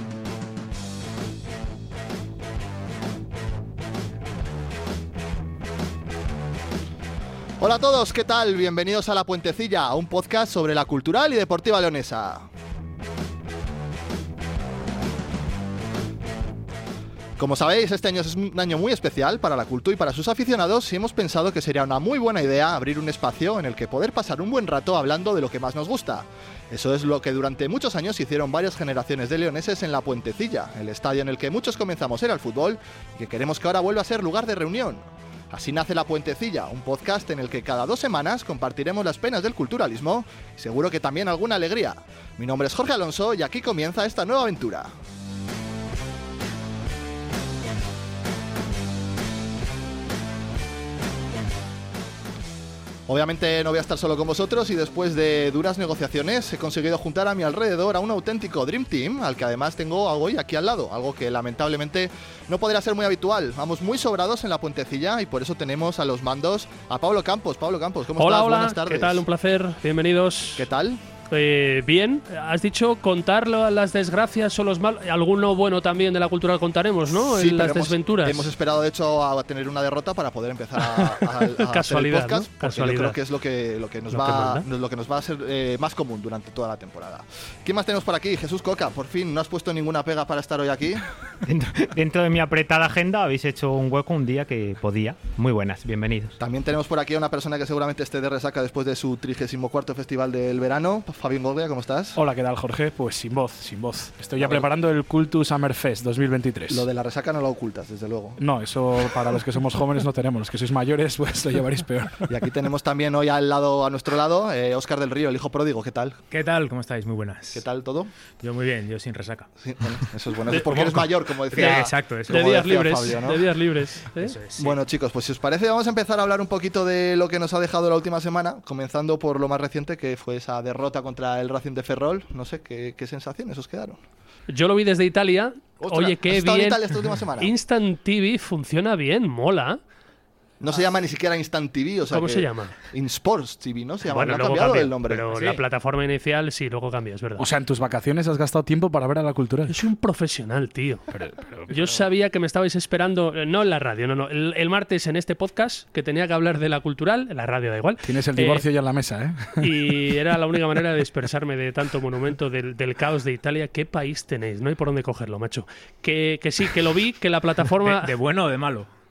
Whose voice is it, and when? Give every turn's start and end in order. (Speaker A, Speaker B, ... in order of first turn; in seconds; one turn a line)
Speaker A: 7.6-12.4
Speaker A: 17.4-44.9
Speaker A: 53.1-69.2
Speaker B: 68.2-70.7
Speaker A: 70.5-71.0
Speaker B: 71.3-78.5
Speaker A: 77.2-91.0
Speaker B: 80.8-83.2
Speaker B: 84.1-84.6
Speaker C: 91.4-96.4
Speaker A: 96.4-102.2
Speaker D: 102.2-106.9
Speaker A: 104.4-104.7
Speaker A: 106.7-108.4
Speaker D: 108.4-112.3
Speaker A: 112.3-116.2
Speaker E: 116.3-117.6
Speaker A: 117.5-118.1
Speaker E: 118.4-119.5
Speaker A: 119.6-123.5
Speaker E: 120.5-122.5
Speaker B: 121.5-124.3
Speaker E: 124.2-124.8
Speaker A: 124.6-134.0
Speaker B: 134.5-136.8
Speaker A: 135.8-137.5
Speaker B: 137.4-139.8
Speaker A: 140.6-145.2
Speaker B: 142.1-142.7
Speaker B: 144.1-147.5
Speaker E: 145.3-145.6
Speaker D: 147.4-149.8
Speaker B: 149.7-151.0
Speaker D: 151.1-152.0
Speaker B: 151.7-158.6
Speaker D: 158.0-160.0
Speaker B: 159.6-168.1
Speaker E: 167.8-168.9